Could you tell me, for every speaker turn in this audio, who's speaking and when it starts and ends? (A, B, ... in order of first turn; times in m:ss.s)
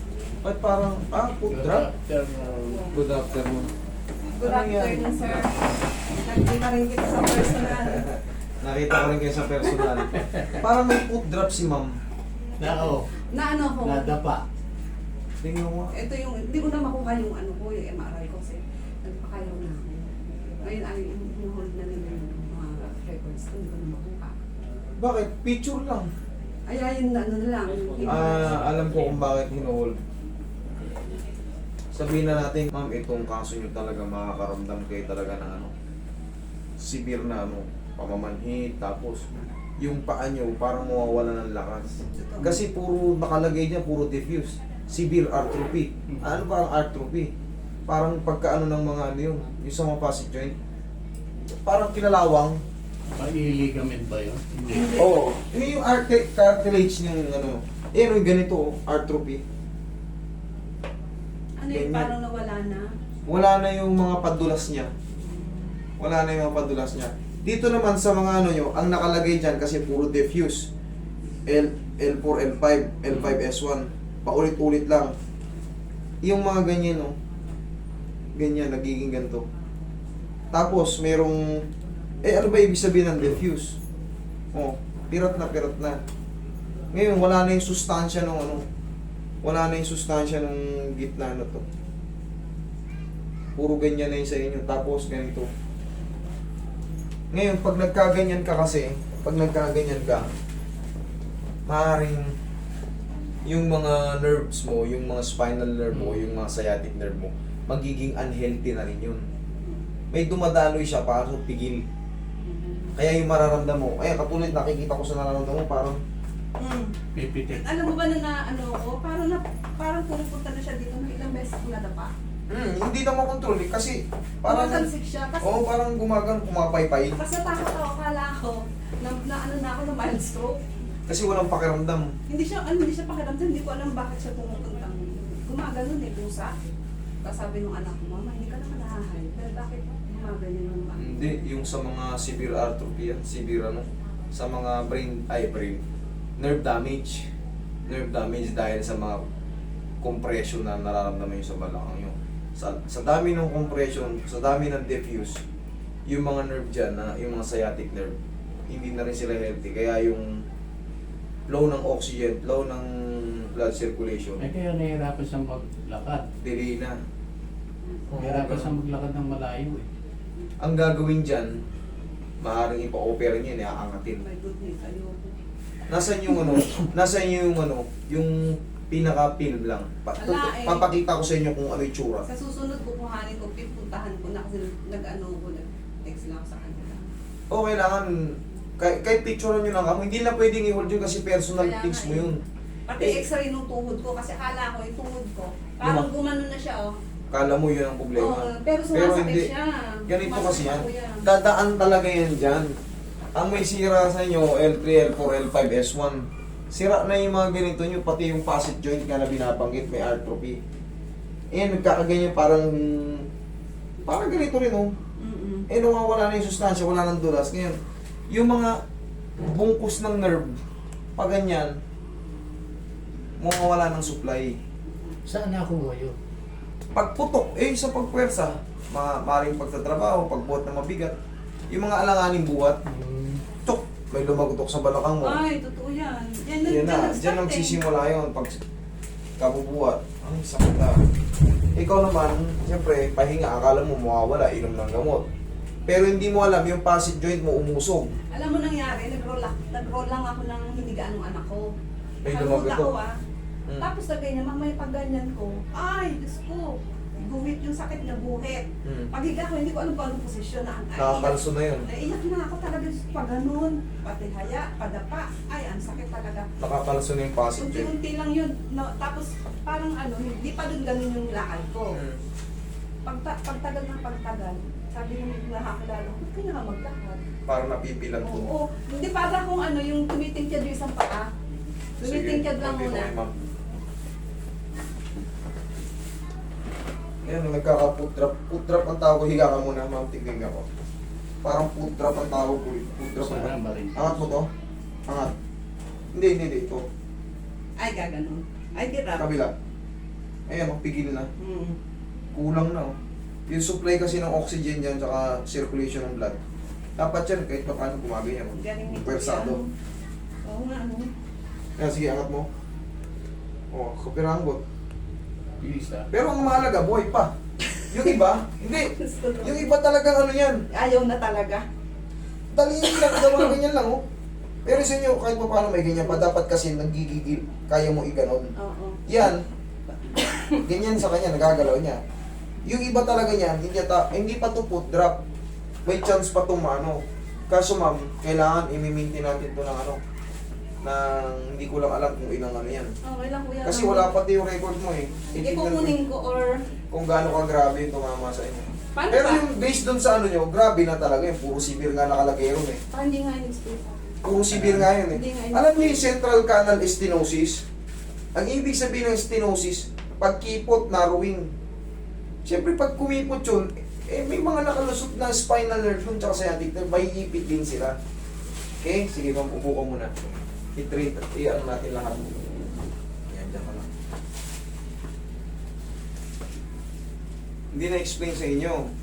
0:00.4-0:01.9 A
0:01.4-0:02.9 B
0:02.6-0:03.0 C
0:02.9-0:03.7 A
0:04.4-0:05.6 C
0:04.4-0:05.4 A
0:06.2-0:08.1 C
0:07.8-0:11.9 A
0:10.1-0:10.6 B
0:12.6-0:13.1 B
0:12.7-0:14.2 C
0:13.8-0:14.4 B
0:15.4-0:16.0 A
0:15.9-0:19.9 C
0:20.6-0:24.4 C
0:25.0-0:26.1 A
0:26.7-0:28.7 C
0:28.0-0:29.2 B
0:28.0-0:30.0 A
0:31.9-0:35.7 A
0:36.8-0:39.2 A
0:39.8-0:47.3 A
0:42.1-0:42.6 C
0:46.1-0:46.5 B
0:47.9-0:50.6 A
0:51.6-0:52.6 A
0:53.1-0:55.0 B
0:54.7-0:55.1 C
0:55.0-0:59.4 A
1:01.6-1:02.9 C
1:01.7-1:02.1 A
1:03.3-1:04.9 A
1:06.0-1:10.7 A
1:11.5-1:15.1 A
1:16.2-1:17.1 A
1:18.4-1:19.4 A
1:20.5-1:21.6 A
1:22.2-1:23.8 A
1:24.5-1:26.0 A
1:26.9-1:28.6 A
1:29.4-1:31.6 A
1:33.6-1:35.5 A
1:37.3-1:40.3 A
1:41.7-1:42.3 A
1:43.5-1:49.2 A
1:45.9-1:46.4 B
1:50.1-1:51.8 A
1:52.4-1:52.9 C
1:53.0-1:56.0 A
1:56.6-1:57.0 C
1:57.2-1:57.6 B
1:57.5-2:02.1 C
2:02.5-2:04.9 A
2:04.5-2:05.7 C
2:05.4-2:07.2 A
2:07.2-2:10.6 C
2:11.1-2:12.1 A
2:12.3-2:16.5 C
2:17.2-2:21.3 C
2:21.0-2:25.8 A
2:26.4-2:27.3 A
2:27.9-2:29.2 A
2:30.0-2:35.4 A
2:36.1-2:38.2 A
2:38.7-2:40.3 A
2:41.5-2:44.5 A
2:44.4-2:46.2 B
2:46.4-2:47.0 A
2:48.1-2:48.8 A
2:48.2-2:49.9 B
2:50.6-2:51.5 A
2:52.4-2:54.2 A
2:54.2-2:55.4 C
2:55.9-3:02.3 A
2:56.3-2:56.7 C
3:00.2-3:00.9 C
3:02.3-3:07.0 C
3:07.5-3:12.4 A
3:11.5-3:16.9 C
3:13.0-3:13.3 A
3:15.8-3:16.1 A
3:17.3-3:19.5 A
3:18.2-3:21.3 C
3:20.1-3:22.8 A
3:23.4-3:30.6 A
3:31.5-3:33.3 A
3:34.0-3:34.9 A
3:35.2-3:35.7 C
3:35.7-3:37.8 A
3:38.3-3:38.8 A
3:39.4-3:40.6 A
3:41.2-3:41.7 A
3:43.4-3:44.6 A
3:45.3-3:46.2 B
3:47.0-3:51.2 A
3:51.7-3:52.8 A
3:52.9-3:53.4 B
3:53.6-3:55.4 A
3:55.2-3:57.8 C
3:56.6-3:58.6 A
3:59.4-4:01.0 A
4:01.8-4:05.2 A
4:05.9-4:08.1 A
4:08.3-4:11.7 C
4:12.2-4:12.9 A
4:12.3-4:13.2 C
4:13.8-4:26.5 C
4:18.8-4:19.1 A
4:21.0-4:21.9 A
4:26.6-4:27.9 A
4:27.6-4:32.0 C
4:31.9-4:32.2 A
4:33.0-4:37.2 C
4:37.5-4:38.5 A
4:38.2-4:41.3 C
4:42.0-4:43.3 A
4:42.0-4:43.1 C
4:47.2-4:50.7 A
4:51.4-4:54.5 A
4:53.2-4:54.4 B
4:55.1-4:55.3 A
4:56.1-4:56.8 A
4:57.8-4:59.3 C
4:59.2-4:59.5 A
5:00.5-5:01.3 A
5:01.4-5:01.8 C
5:02.3-5:02.9 A
5:03.5-5:06.4 A
5:07.0-5:09.6 A
5:08.5-5:09.7 C
5:10.4-5:11.1 C
5:11.8-5:12.5 A
5:13.7-5:14.6 A
5:15.6-5:16.1 B
5:16.1-5:17.3 A
5:17.8-5:18.1 C
5:17.9-5:18.9 A
5:18.9-5:19.8 C
5:19.4-5:20.6 A
5:20.7-5:21.6 C
5:22.5-5:24.0 A
5:22.9-5:23.5 C
5:24.6-5:28.5 A
5:28.6-5:29.0 C
5:29.1-5:29.4 A
5:30.1-5:30.6 C
5:30.7-5:32.0 A
5:32.6-5:35.2 A
5:35.8-5:40.0 A
5:40.8-5:42.9 A
5:43.0-5:44.2 C
5:43.6-5:46.0 A
5:45.4-5:46.6 C
5:46.9-5:52.8 A
5:49.0-5:49.5 C
5:52.9-5:54.3 C
5:54.2-5:57.6 A
5:54.5-5:54.9 B
5:55.1-5:56.1 C
5:58.4-6:01.5 A
6:02.4-6:08.0 A
6:08.8-6:10.1 A
6:10.8-6:12.4 A
6:13.3-6:13.9 A
6:17.7-6:18.9 A